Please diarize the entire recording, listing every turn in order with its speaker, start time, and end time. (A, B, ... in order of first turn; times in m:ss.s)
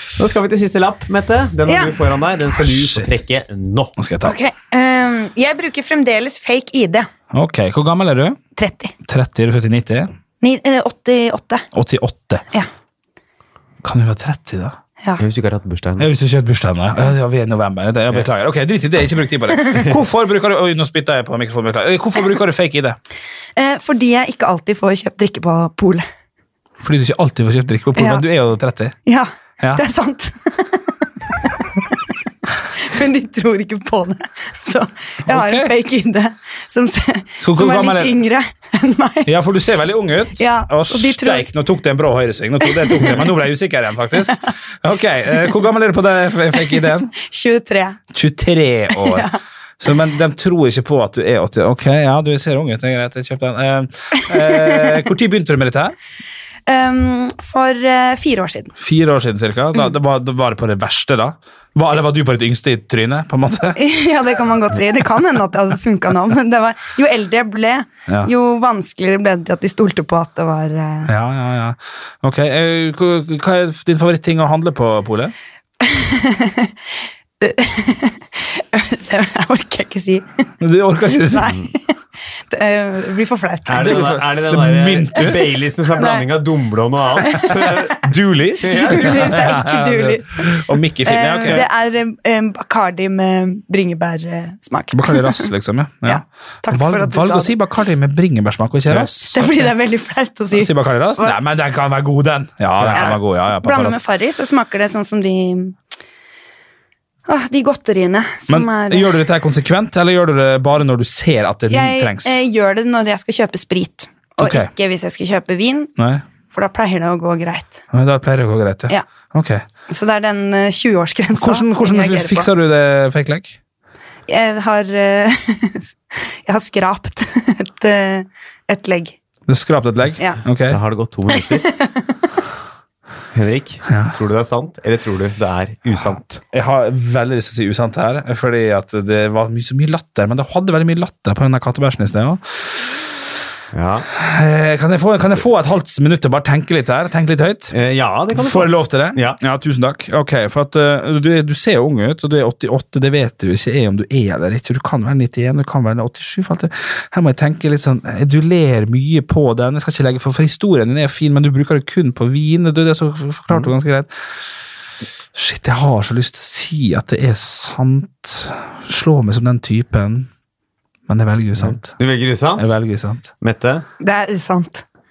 0:00.2-0:03.9 A
0:01.7-0:02.0 B
0:02.6-0:03.1 C
0:04.0-0:04.4 C
0:04.2-0:07.1 B
0:07.3-0:08.4 C
0:08.6-0:08.9 B
0:09.0-0:10.1 C
0:10.4-0:11.6 B
0:11.7-0:12.4 C
0:13.8-0:14.8 C
0:15.2-0:16.1 A
0:16.0-0:23.0 C
0:23.6-0:26.1 B
0:26.8-0:29.0 C
0:28.0-0:28.2 B
0:29.1-0:30.9 B
0:32.7-0:39.3 B
0:35.3-0:35.7 C
0:37.4-0:38.2 C
0:39.3-0:47.1 C
0:40.4-0:41.5 B
0:42.6-0:43.2 B
0:46.6-0:48.0 B
0:48.1-0:56.0 C
0:48.9-0:49.4 B
0:54.4-0:54.8 B
0:56.7-0:58.7 B
0:58.8-1:03.8 C
1:03.8-1:11.1 B
1:11.1-1:15.3 C
1:15.8-1:16.7 B
1:17.4-1:20.5 B
1:20.6-1:21.6 C
1:21.1-1:22.0 B
1:22.5-1:24.2 B
1:23.7-1:28.0 A
1:23.8-1:25.6 C
1:26.0-1:26.3 B
1:27.2-1:27.9 B
1:28.0-1:31.7 C
1:28.6-1:29.5 A
1:28.6-1:35.5 B
1:34.9-1:39.7 C
1:36.1-1:37.5 B
1:39.3-1:41.4 B
1:40.5-1:44.0 C
1:42.8-1:43.1 A
1:42.9-1:45.8 B
1:47.3-1:49.2 B
1:48.5-1:52.4 C
1:51.7-1:55.9 B
1:54.4-1:54.7 C
1:56.0-1:56.2 C
1:56.5-1:57.8 B
1:57.9-1:59.6 C
1:59.9-2:02.5 B
2:01.4-2:03.6 C
2:04.3-2:09.2 B
2:09.5-2:10.8 C
2:10.7-2:11.7 A
2:11.3-2:12.2 B
2:13.3-2:16.4 A
2:13.9-2:14.2 C
2:16.5-2:22.6 C
2:23.7-2:24.1 A
2:24.1-2:27.7 C
2:27.7-2:29.4 A
2:28.3-2:44.1 C
2:45.3-2:50.3 C
2:51.1-2:52.0 C
2:51.6-2:52.8 A
2:52.6-2:53.3 C
2:53.4-2:53.8 A
2:54.0-2:54.8 B